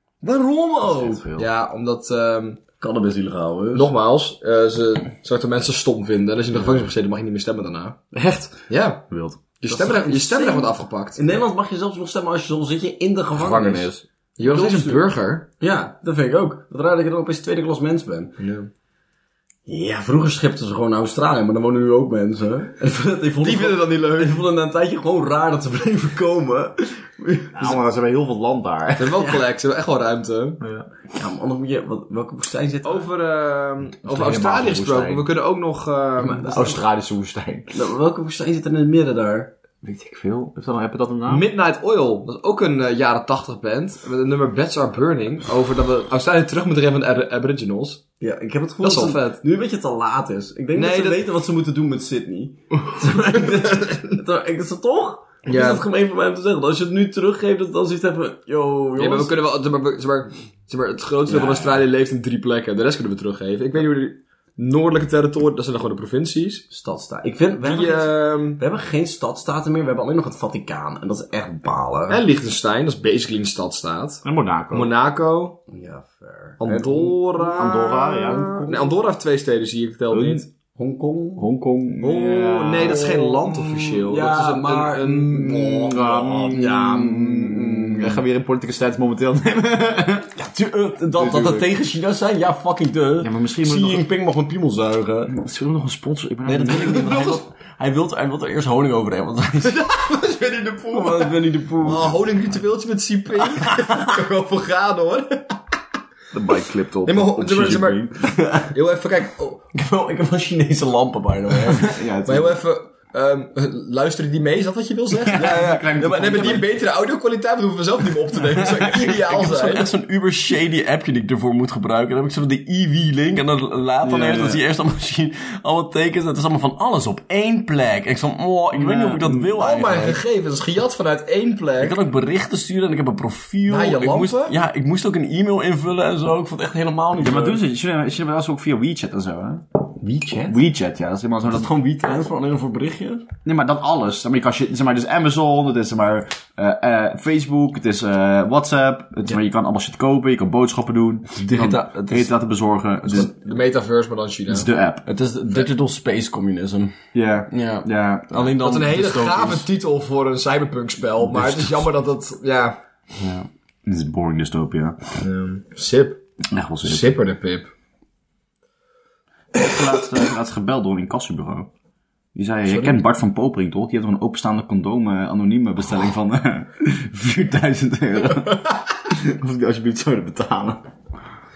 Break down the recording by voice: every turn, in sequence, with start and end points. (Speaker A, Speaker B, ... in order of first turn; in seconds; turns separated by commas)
Speaker A: 0.2-1.4, Speaker B: 0.8-1.4, Speaker C: 1.4-2.6, Speaker A: 2.8-3.9, Speaker C: 3.7-9.1, Speaker A: 8.2-8.4, Speaker B: 9.1-9.4, Speaker C: 9.6-11.2, Speaker A: 9.7-13.9, Speaker C: 13.4-15.5, Speaker A: 14.4-15.0, Speaker A: 15.6-18.4, Speaker C: 18.4-18.7, Speaker A: 19.7-27.8, Speaker C: 23.4-24.4, Speaker B: 27.5-29.2, Speaker C: 29.0-30.6, Speaker A: 29.2-29.4, Speaker B: 30.6-30.9, Speaker A: 31.1-33.1, Speaker C: 32.8-36.8, Speaker B: 34.0-35.3, Speaker A: 36.2-36.8, Speaker B: 36.4-37.7, Speaker A: 37.7-39.5, Speaker B: 39.8-41.5, Speaker C: 41.3-48.0, Speaker A: 48.2-59.3, Speaker C: 48.8-49.4, Speaker C: 50.7-51.2, Speaker C: 53.3-54.0, Speaker C: 55.4-55.9, Speaker C: 59.0-66.6, Speaker A: 61.3-61.8, Speaker A: 66.7-72.2, Speaker C: 67.6-68.6, Speaker C: 72.1-75.6, Speaker B: 74.2-74.9, Speaker A: 75.7-76.6, Speaker C: 76.6-80.5, Speaker B: 76.6-78.7, Speaker A: 78.0-78.9, Speaker B: 80.1-80.5, Speaker A: 80.7-81.5, Speaker B: 81.4-83.3, Speaker C: 82.0-86.5, Speaker A: 82.9-85.5, Speaker B: 85.3-90.3, Speaker A: 86.5-88.2, Speaker A: 90.3-95.3, Speaker B: 91.1-91.7, Speaker B: 93.2-94.0, Speaker B: 95.3-97.2, Speaker A: 96.5-99.8, Speaker C: 96.7-97.4, Speaker C: 99.6-105.6, Speaker A: 100.9-102.2, Speaker A: 103.6-104.0, Speaker B: 106.3-108.2, Speaker C: 107.0-108.1, Speaker A: 108.2-108.7, Speaker C: 108.7-109.6, Speaker A: 109.7-112.0, Speaker C: 111.7-119.9, Speaker B: 111.8-112.6, Speaker B: 115.2-116.7, Speaker A: 118.6-130.2, Speaker B: 124.0-124.6, Speaker B: 128.7-129.5, Speaker C: 129.5-131.9, Speaker A: 131.8-137.6, Speaker C: 133.7-134.5, Speaker B: 137.2-139.6, Speaker A: 140.0-140.6, Speaker B: 140.4-141.7, Speaker A: 141.4-143.2, Speaker B: 143.4-153.6, Speaker A: 151.3-152.3, Speaker C: 153.1-154.7, Speaker B: 154.5-155.0, Speaker A: 155.1-157.0, Speaker B: 157.1-158.6, Speaker A: 157.5-159.7, Speaker C: 158.6-162.8, Speaker A: 161.3-161.7, Speaker A: 163.2-163.5, Speaker B: 163.8-165.0, Speaker C: 165.2-166.2, Speaker B: 166.5-167.1, Speaker C: 166.8-167.7, Speaker B: 169.5-171.7, Speaker B: 172.3-180.8, Speaker C: 172.7-172.9